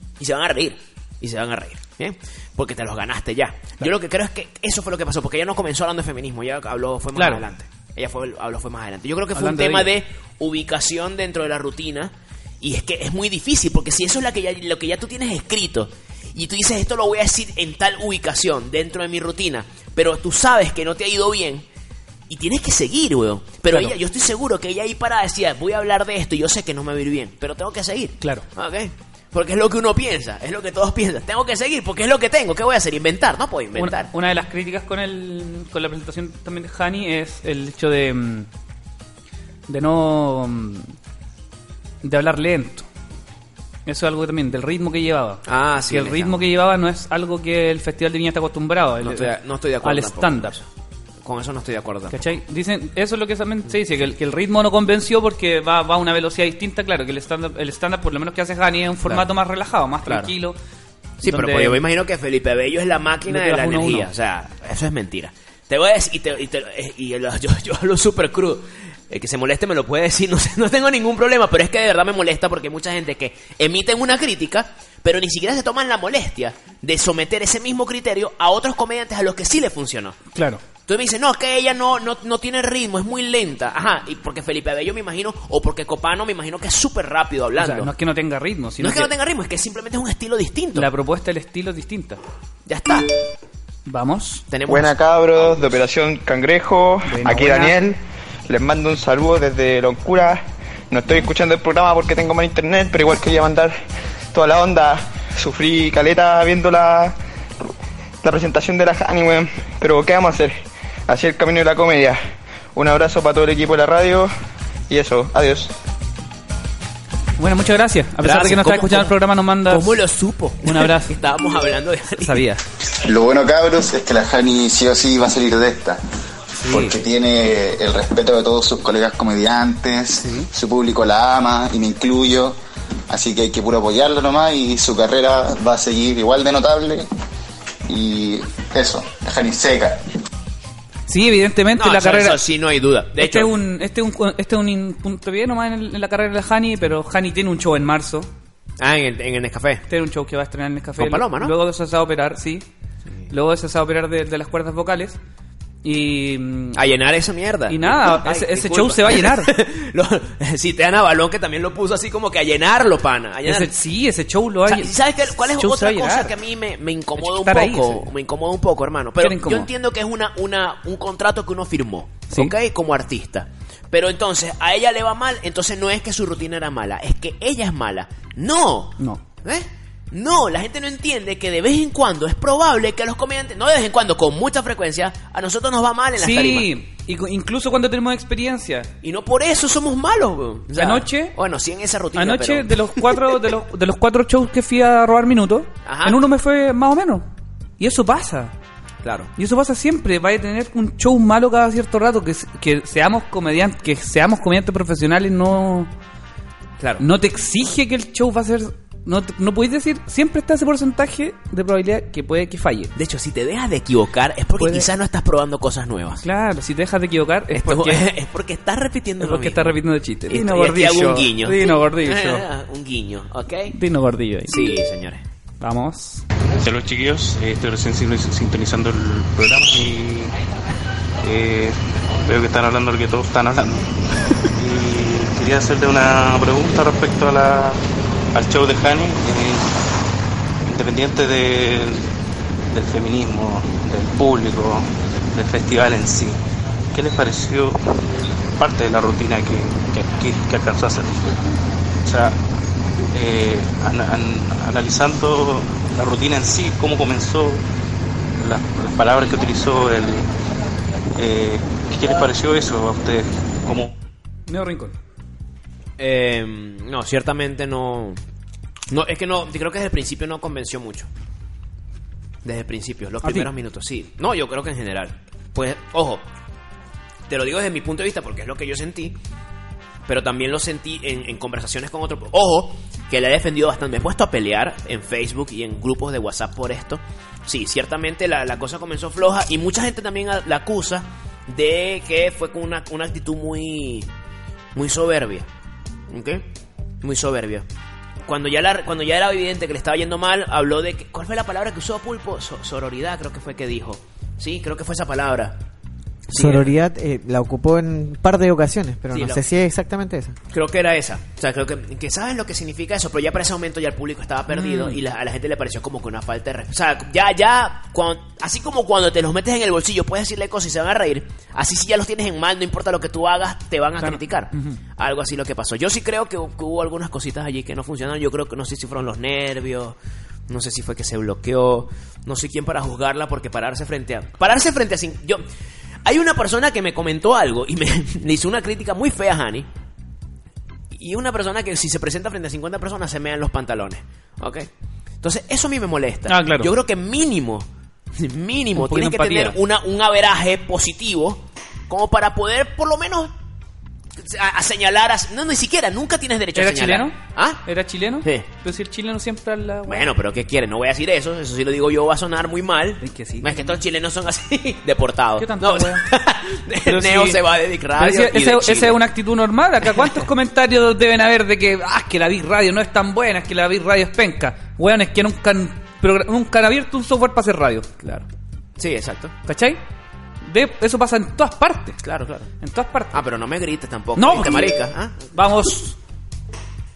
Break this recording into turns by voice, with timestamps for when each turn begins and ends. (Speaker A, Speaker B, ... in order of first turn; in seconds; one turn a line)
Speaker A: 0.2-21.6
Speaker B: 7.2-7.4
Speaker B: 9.3-9.9
Speaker A: 22.3-34.1
Speaker B: 23.7-23.9
Speaker B: 28.2-28.4
Speaker B: 33.8-38.5
Speaker B: 39.7-40.9
Speaker B: 42.0-42.9
Speaker B: 43.9-50.5
Speaker A: 45.5-46.4
Speaker A: 49.0-50.7
Speaker A: 51.2-52.2
Speaker B: 52.1-60.6
Speaker A: 60.1-60.3
Speaker A: 61.2-80.2
Speaker B: 61.2-61.8
Speaker B: 63.3-64.1
Speaker B: 80.3-80.6
Speaker A: 80.9-87.9
Speaker B: 87.6-89.1
Speaker A: 88.8-90.9
Speaker B: 90.8-92.2
Speaker A: 92.7-93.1
Speaker B: 93.9-94.5
Speaker A: 94.5-95.7
Speaker C: 94.7-103.8
Speaker B: 97.0-97.8
Speaker C: 104.3-107.2
Speaker C: 108.2-112.2
Speaker C: 112.8-114.3
Speaker C: 114.9-115.7
Speaker B: 117.4-120.0
Speaker A: 118.2-119.2
Speaker A: 119.7-122.4
Speaker B: 120.6-121.2
Speaker B: 122.2-122.7
Speaker D: 123.0-126.0
Speaker B: 126.6-127.0
Speaker D: 126.7-132.6
Speaker B: 130.2-130.5
Speaker D: 133.1-137.1
Speaker D: 137.9-140.0
Speaker B: 141.1-142.4
Speaker A: 141.8-143.5
Speaker B: 143.2-148.3
Speaker A: 148.8-149.8
Speaker B: 149.9-152.7
Speaker A: 151.0-151.6
Speaker B: 153.3-155.2
Speaker B: 155.8-156.8
Speaker A: 156.7-163.8
Speaker B: 157.7-159.5
Speaker B: 163.4-166.3
Speaker A: 164.7-186.7
Speaker B: 167.2-168.1
Speaker B: 169.2-169.7
Speaker B: 186.2-188.9
Speaker A: 189.0-193.2
Speaker B: 190.8-191.3
Speaker B: 192.2-197.3
Speaker A: 195.8-196.2
Speaker B: 197.8-198.5
Speaker A: 199.0-199.3
Speaker B: 199.4-205.9
Speaker A: 206.8-207.0
Speaker B: 207.0-212.9
Speaker A: 213.0-216.2
Speaker B: 214.6-214.9
Speaker B: 216.2-218.1
Speaker A: 217.5-223.8
Speaker B: 219.2-222.5
Speaker B: 223.7-224.7
Speaker A: 224.5-225.2
Speaker B: 225.6-226.2
Speaker E: 226.6-230.3
Speaker E: 231.2-233.9
Speaker E: 234.5-237.8
Speaker E: 238.3-239.7
Speaker E: 240.6-242.1
Speaker E: 242.7-246.4
Speaker E: 246.9-247.8
Speaker E: 248.6-251.4
Speaker E: 252.0-252.4
Speaker E: 253.1-257.6
Speaker E: 258.4-260.3
Speaker E: 261.2-263.9
Speaker B: 264.5-265.0
Speaker A: 266.0-268.2
Speaker A: 268.9-271.1
Speaker A: 272.4-276.2
Speaker B: 273.2-273.5
Speaker A: 277.3-279.2
Speaker A: 280.1-294.1
Speaker A: 294.8-295.5
Speaker A: 296.1-296.5
Speaker A: 297.0-297.7
Speaker A: 298.2-305.6
Speaker A: 306.3-306.7
Speaker F: 306.3-310.4
Speaker A: 309.1-309.5
Speaker A: 310.5-330.0
Speaker B: 314.5-315.0
Speaker B: 324.0-324.8
Speaker A: 330.5-335.4
Speaker A: 336.1-339.7
Speaker A: 340.9-344.7
Speaker A: 345.2-353.3
Speaker B: 346.3-346.7
Speaker B: 348.8-349.6
Speaker A: 354.2-357.6
Speaker B: 356.6-360.1
Speaker A: 359.9-369.0
Speaker B: 363.0-363.8
Speaker B: 365.4-366.1
Speaker B: 366.9-367.4
Speaker B: 367.9-378.0
Speaker A: 378.0-378.3
Speaker A: 378.8-379.3
Speaker B: 379.5-379.8
Speaker B: 380.4-382.0
Speaker A: 382.0-382.5
Speaker B: 382.6-383.2
Speaker A: 383.1-385.2
Speaker B: 384.2-384.7
Speaker B: 385.3-386.0